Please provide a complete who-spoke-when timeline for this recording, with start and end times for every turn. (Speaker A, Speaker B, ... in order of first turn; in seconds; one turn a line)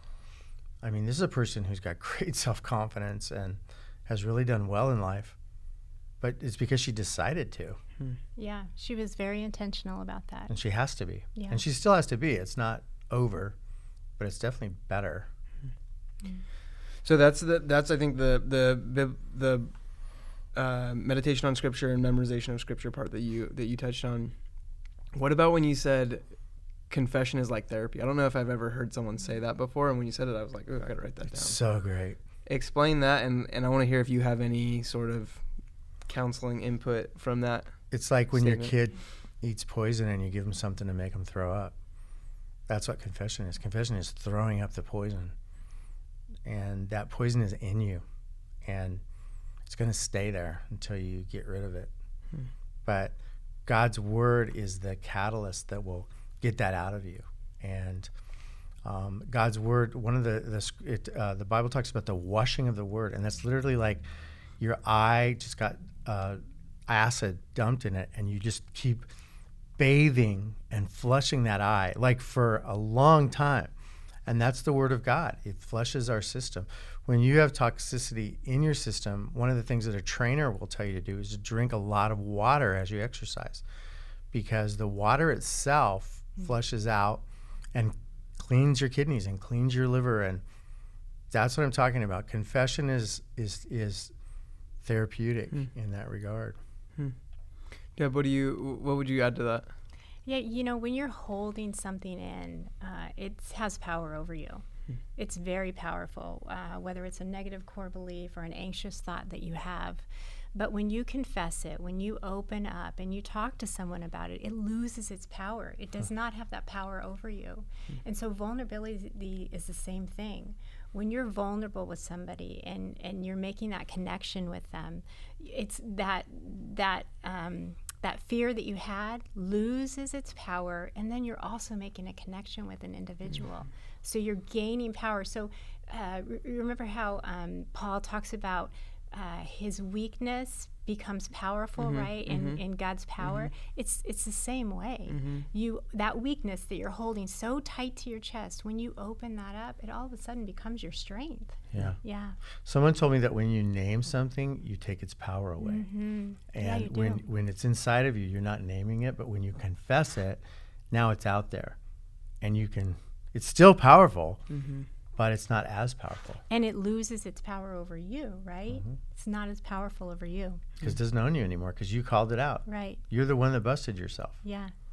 Speaker A: 0.8-5.4
Speaker A: 6.2-7.8
Speaker B: 8.4-10.5
Speaker A: 10.5-13.6
Speaker B: 11.3-11.6
Speaker A: 14.2-15.3
Speaker C: 17.0-24.3
Speaker C: 25.1-31.6
Speaker A: 31.3-32.2
Speaker C: 32.5-35.5
Speaker C: 36.0-38.7
Speaker A: 37.9-41.8
Speaker A: 42.7-45.3
Speaker A: 46.5-48.0
Speaker A: 48.6-49.0
Speaker A: 49.7-51.9
Speaker A: 52.9-58.1
Speaker A: 58.8-64.0
Speaker A: 64.6-69.1
Speaker A: 69.8-73.7
Speaker A: 74.3-83.6
Speaker A: 84.3-87.2
Speaker A: 87.7-90.4
Speaker A: 91.3-94.1
Speaker A: 94.8-96.6
Speaker C: 98.0-99.7
Speaker B: 100.2-104.6
Speaker B: 105.2-152.4
Speaker C: 141.8-142.6
Speaker C: 143.2-143.5
Speaker C: 145.1-145.5
Speaker A: 151.7-152.0
Speaker A: 152.6-155.9
Speaker B: 155.6-157.2
Speaker A: 156.5-161.8
Speaker A: 162.4-164.4
Speaker C: 164.5-164.9
Speaker A: 165.2-166.4
Speaker B: 166.5-170.6
Speaker A: 168.7-169.0
Speaker A: 170.8-174.4
Speaker B: 172.7-173.0
Speaker B: 174.4-174.7